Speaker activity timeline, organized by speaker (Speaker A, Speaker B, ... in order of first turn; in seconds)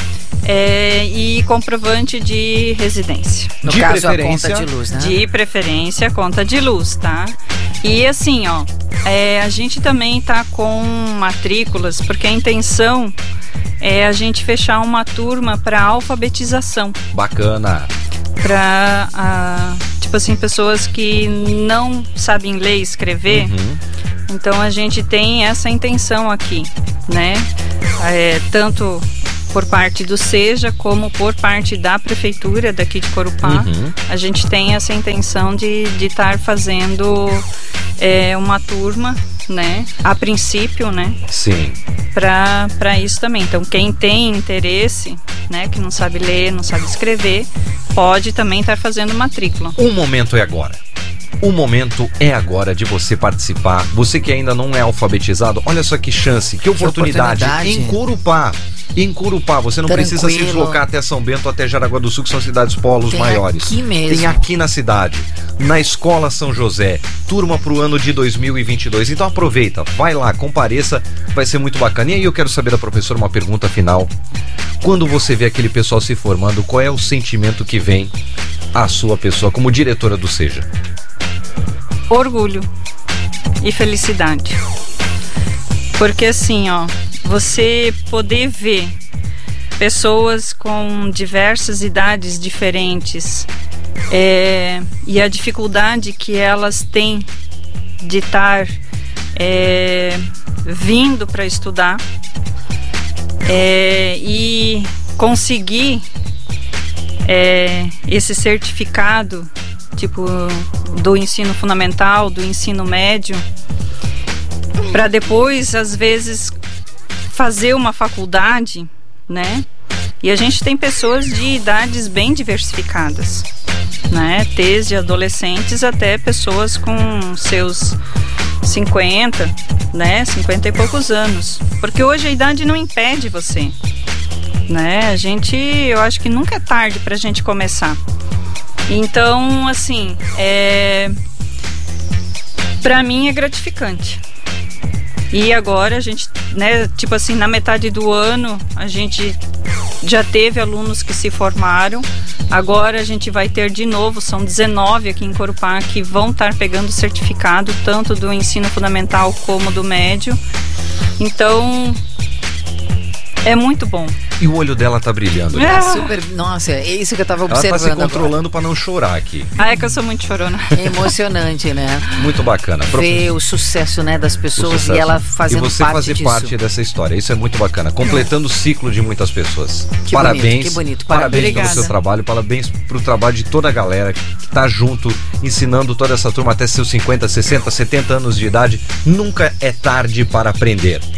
Speaker A: 0.5-3.5, 4.9-13.2, 13.8-17.0, 18.4-23.5, 24.3-27.5, 28.0-37.5, 38.0-41.2, 42.1-49.8, 82.1-82.7, 83.6-84.6, 86.0-88.9, 89.8-93.5, 94.1-97.3, 98.0-98.8, 99.4-102.0, 103.5-106.0, 107.2-113.4, 114.9-116.5, 117.3-119.6, 120.2-123.5, 124.1-128.0, 128.6-133.8, 134.7-138.0, 138.9-141.2, 142.8-144.2, 145.3-149.4, 150.0-160.4, 161.2-162.0, 163.4-164.2, 165.5-166.1, 169.6-171.1, 181.2-181.9
Speaker B: 3.6-4.7, 17.1-17.9, 23.3-23.8, 33.4-33.9, 41.3-41.8, 49.8-50.8, 51.4-74.1, 74.8-78.1, 78.7-80.7, 164.4-165.9, 167.5-169.5, 172.2-173.3, 174.6-191.1
Speaker C: 3.6-5.2, 56.8-58.0, 59.9-60.8, 63.1-64.5, 165.7-168.3, 170.8-172.1, 172.9-176.5, 180.1-181.9